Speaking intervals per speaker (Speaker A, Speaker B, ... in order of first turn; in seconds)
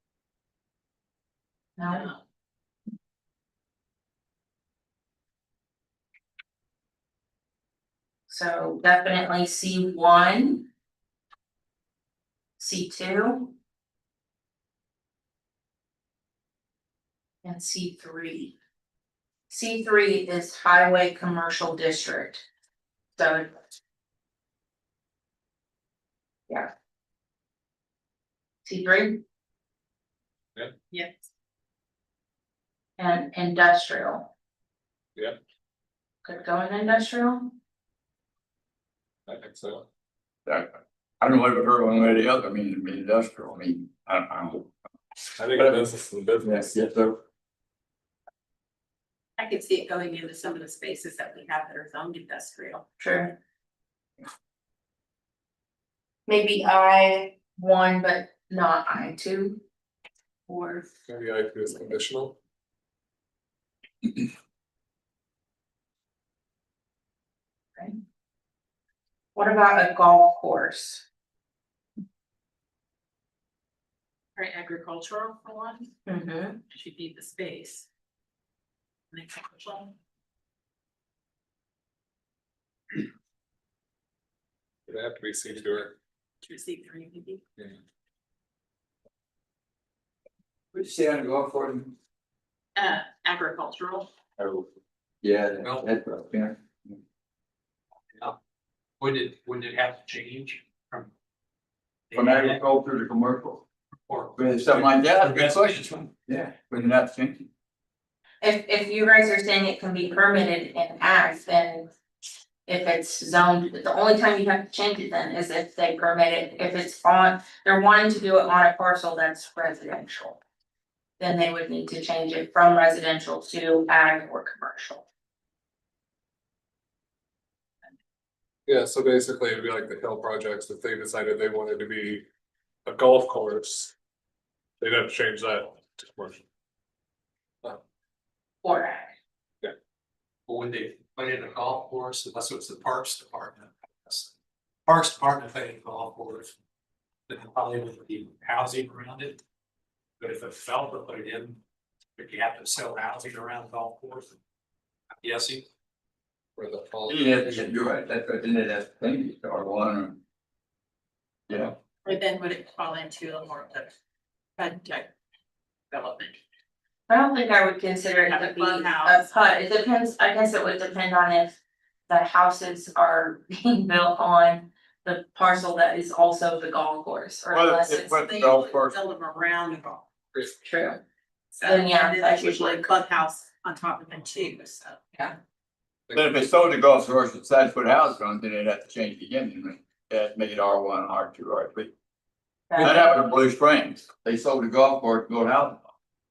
Speaker A: 1.8-2.2, 8.3-10.7, 12.6-13.5, 17.4-18.6, 19.5-22.4, 23.2-23.6, 28.6-29.2, 33.0-34.3, 36.2-37.5, 53.0-53.4, 56.3-59.6, 60.5-60.9, 69.3-71.0, 76.1-76.6, 108.4-111.9, 112.7-120.4, 121.2-125.1, 138.6-139.2, 167.1-178.2, 180.6-181.0, 181.6-182.8, 192.7-193.2
Speaker B: 30.9-31.3, 49.4-52.9, 74.4-75.9, 76.7-77.9, 79.1-80.0, 86.4-87.4, 92.8-94.1, 162.1-163.9, 164.6-165.1, 165.9-166.4, 168.2-169.3, 177.9-180.1, 181.6-185.1
Speaker C: 39.3-39.9, 45.4-46.7, 61.1-62.4, 84.9-86.0, 128.7-132.3, 132.9-133.9, 134.8-136.5, 156.6-157.7
Speaker D: 40.5-44.7, 46.4-47.2, 90.7-92.0, 94.4-94.7, 95.2-97.0, 102.1-103.7, 104.4-107.5, 157.1-160.2, 161.5-161.8, 177.5-179.0, 186.1-191.9, 192.8-195.9
Speaker E: 95.6-95.9, 99.0-101.1, 102.1-102.6, 104.1-106.1, 140.5-144.3, 144.9-146.5, 147.3-149.4, 150.2-151.6, 152.2-154.4, 155.2-155.7